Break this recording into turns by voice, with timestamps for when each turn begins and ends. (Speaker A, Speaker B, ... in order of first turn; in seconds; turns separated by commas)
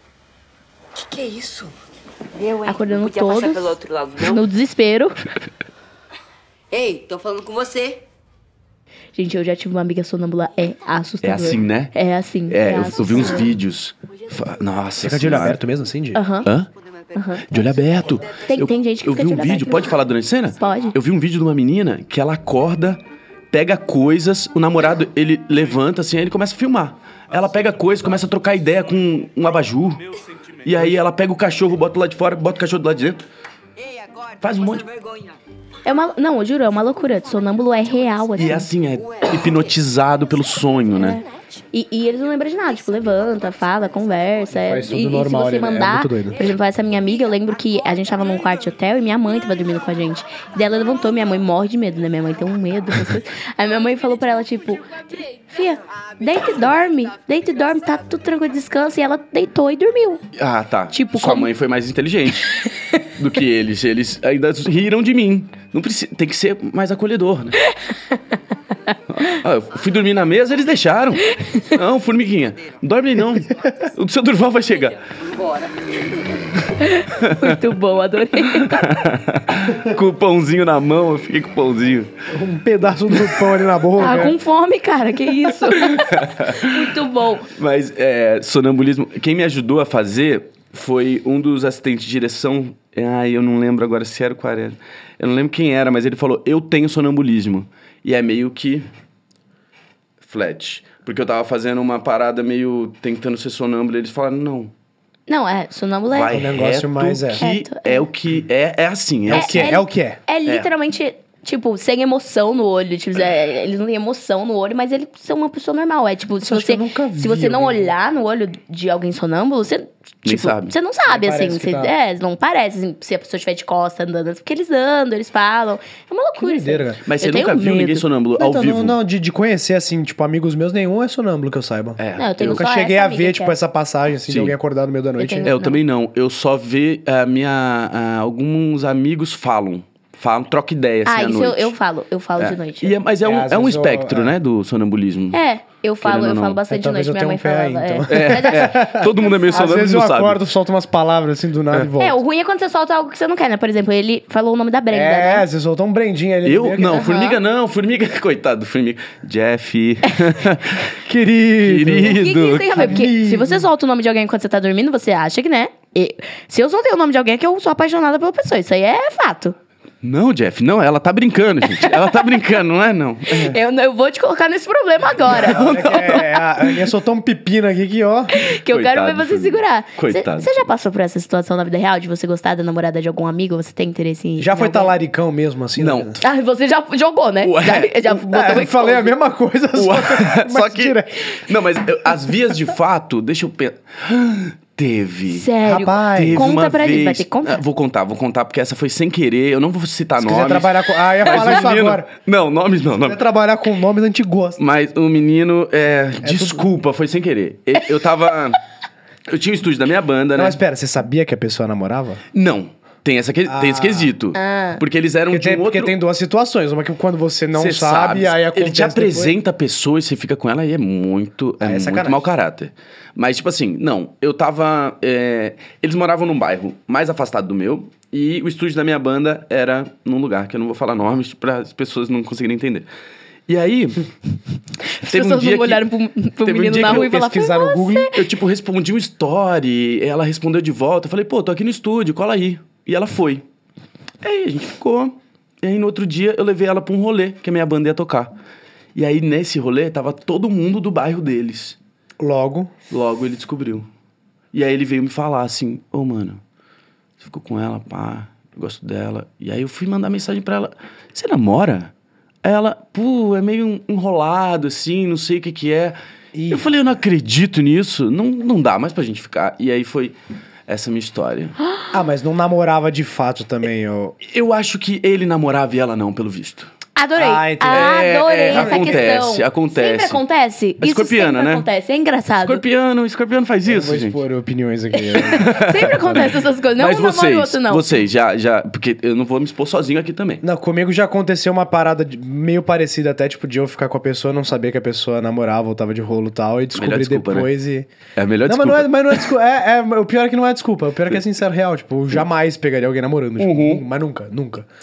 Speaker A: 1.0-1.7, Speaker A: 2.3-4.5, Speaker B: 2.6-5.2, Speaker A: 6.7-8.1, Speaker B: 9.2-13.6, Speaker C: 11.2-11.9, Speaker C: 12.5-15.6, Speaker D: 15.0-16.2, Speaker B: 16.1-16.5, Speaker C: 16.4-16.7, Speaker A: 16.7-18.6, Speaker B: 17.1-17.5, Speaker C: 17.5-30.1, Speaker B: 18.4-20.0, Speaker B: 20.6-20.9, Speaker C: 30.6-33.2, Speaker A: 33.8-35.4, Speaker C: 34.4-34.9, Speaker B: 35.9-38.7, Speaker A: 36.9-41.6, Speaker C: 38.4-41.2, Speaker B: 41.0-60.2, Speaker A: 42.6-44.8, Speaker D: 44.5-46.4, Speaker A: 46.4-47.3, Speaker A: 48.0-48.5, Speaker A: 50.8-51.3, Speaker A: 53.9-58.2, Speaker C: 60.4-62.6, Speaker B: 60.9-61.5, Speaker C: 63.2-67.6, Speaker B: 67.7-68.2, Speaker C: 69.1-75.0, Speaker B: 71.2-71.7, Speaker A: 74.8-76.4, Speaker B: 76.8-79.0, Speaker C: 77.2-77.6, Speaker C: 78.4-82.1, Speaker D: 82.3-84.4, Speaker C: 83.1-83.4, Speaker B: 84.0-87.5, Speaker C: 85.8-86.8, Speaker C: 87.5-98.9, Speaker C: 100.2-104.7, Speaker B: 105.3-106.3, Speaker C: 106.1-109.8, Speaker D: 106.3-107.4, Speaker B: 107.4-108.1, Speaker D: 109.3-110.2, Speaker B: 109.3-128.1, Speaker D: 116.4-117.9, Speaker C: 120.2-120.7, Speaker D: 121.1-121.9, Speaker D: 126.4-127.0, Speaker C: 127.1-129.0, Speaker D: 128.4-135.5, Speaker C: 132.0-132.6, Speaker B: 132.2-133.6, Speaker C: 134.3-134.6, Speaker B: 135.2-135.8, Speaker C: 135.4-141.7, Speaker B: 141.1-142.9, Speaker C: 142.4-145.4, Speaker D: 143.2-144.3, Speaker B: 145.3-149.8, Speaker C: 146.0-146.6, Speaker D: 146.7-152.2, Speaker C: 148.1-150.4, Speaker B: 152.0-155.5, Speaker D: 154.9-157.1, Speaker C: 156.4-160.9, Speaker B: 156.9-157.4, Speaker D: 161.0-163.7, Speaker C: 161.6-163.0, Speaker B: 162.0-169.6, Speaker C: 170.0-173.6, Speaker B: 171.8-172.4, Speaker B: 173.3-176.2, Speaker C: 175.2-176.3, Speaker D: 175.3-178.3, Speaker B: 178.3-184.9, Speaker C: 178.7-180.6, Speaker D: 184.4-186.2, Speaker C: 185.8-186.2, Speaker B: 186.2-189.1, Speaker C: 187.4-188.0, Speaker D: 188.1-191.3, Speaker C: 189.8-203.2, Speaker B: 195.3-197.6, Speaker D: 195.7-196.5, Speaker D: 200.2-202.1, Speaker D: 203.0-204.6, Speaker C: 204.6-208.6, Speaker D: 206.2-206.7, Speaker C: 209.3-210.6, Speaker D: 210.3-212.2, Speaker C: 212.3-216.0, Speaker D: 213.5-214.1, Speaker B: 214.3-214.8, Speaker D: 215.3-219.3, Speaker C: 217.6-232.9, Speaker D: 221.6-222.2, Speaker C: 233.5-234.1, Speaker B: 234.8-238.2, Speaker C: 235.1-235.8, Speaker C: 236.4-237.1, Speaker D: 236.8-238.1, Speaker C: 238.1-243.4, Speaker C: 244.2-248.3, Speaker C: 248.9-251.8, Speaker D: 252.2-252.7, Speaker C: 252.9-253.9, Speaker C: 254.5-256.4, Speaker C: 257.2-261.9, Speaker C: 262.4-266.0, Speaker D: 266.3-266.7, Speaker C: 266.5-270.2, Speaker C: 270.7-271.6, Speaker D: 271.9-274.1, Speaker C: 274.2-276.7, Speaker B: 277.0-282.6, Speaker D: 277.2-279.1, Speaker C: 277.7-280.2, Speaker C: 280.8-281.6, Speaker C: 282.4-284.2, Speaker D: 283.6-286.2, Speaker B: 285.1-287.9, Speaker C: 285.2-290.4, Speaker D: 290.4-297.9, Speaker C: 296.7-297.5, Speaker C: 298.2-299.2, Speaker D: 298.5-304.7, Speaker C: 303.4-303.8